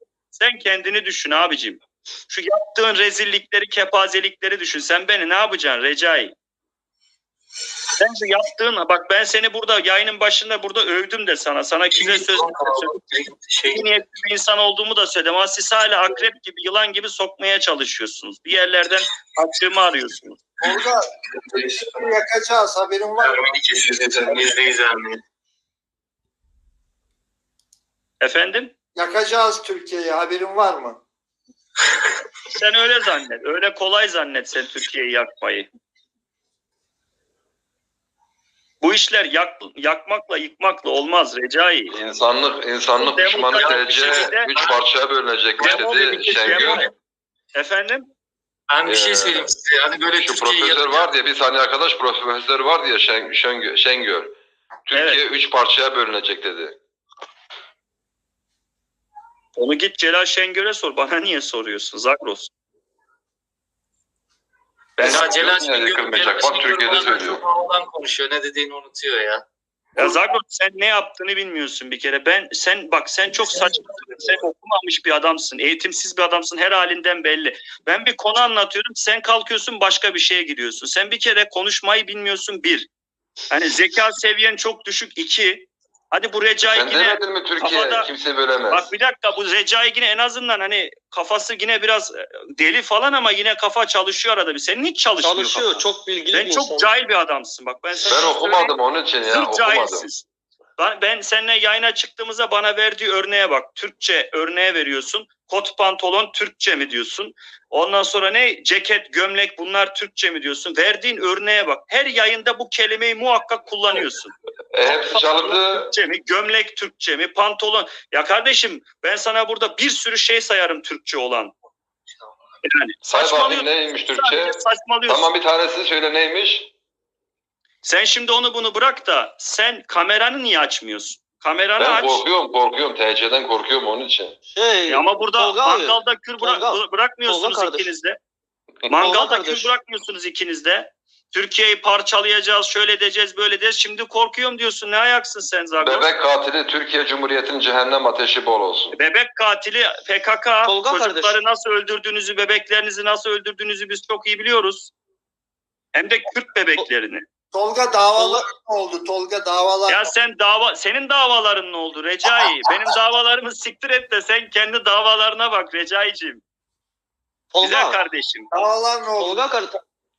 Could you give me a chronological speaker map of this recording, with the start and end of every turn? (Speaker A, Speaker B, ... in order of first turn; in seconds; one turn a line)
Speaker A: 0.3-6.3
Speaker A: 8.0-12.9
Speaker B: 11.9-13.8
Speaker A: 13.7-20.4
Speaker C: 20.6-21.0
Speaker C: 21.6-23.5
Speaker B: 21.6-22.1
Speaker B: 23.2-25.2
Speaker A: 28.2-28.7
Speaker C: 28.9-31.0
Speaker A: 32.5-35.7
Speaker A: 38.8-41.9
Speaker D: 41.9-46.9
Speaker A: 43.0-44.5
Speaker B: 43.5-44.8
Speaker B: 45.6-46.9
Speaker A: 45.6-46.9
Speaker A: 47.5-48.1
Speaker B: 48.7-51.1
Speaker D: 48.8-49.5
Speaker D: 50.2-54.3
Speaker D: 54.9-56.8
Speaker A: 54.9-55.2
Speaker A: 59.6-62.5
Speaker A: 65.0-65.3
Speaker B: 65.0-69.5
Speaker D: 65.0-67.4
Speaker A: 70.0-82.9
Speaker A: 83.5-88.1
Speaker D: 86.7-88.9
Speaker A: 88.7-98.7
Speaker E: 95.2-96.9
Speaker D: 98.1-100.1
Speaker A: 99.3-100.2
Speaker A: 100.8-121.5
Speaker D: 114.7-115.9
Speaker A: 122.6-125.3
Speaker D: 123.0-126.7
Speaker A: 127.8-132.2
Speaker D: 131.8-134.4
Speaker E: 134.5-137.9
Speaker A: 134.9-138.2
Speaker A: 138.9-146.1
Speaker E: 138.9-139.7
Speaker D: 145.8-148.9
Speaker A: 148.9-154.9
Speaker E: 150.6-151.3
Speaker A: 155.9-157.2
Speaker C: 157.5-160.1
Speaker E: 158.2-158.4
Speaker A: 159.9-166.4
Speaker E: 167.5-168.0
Speaker A: 167.6-168.7
Speaker C: 168.5-169.4
Speaker E: 169.2-169.8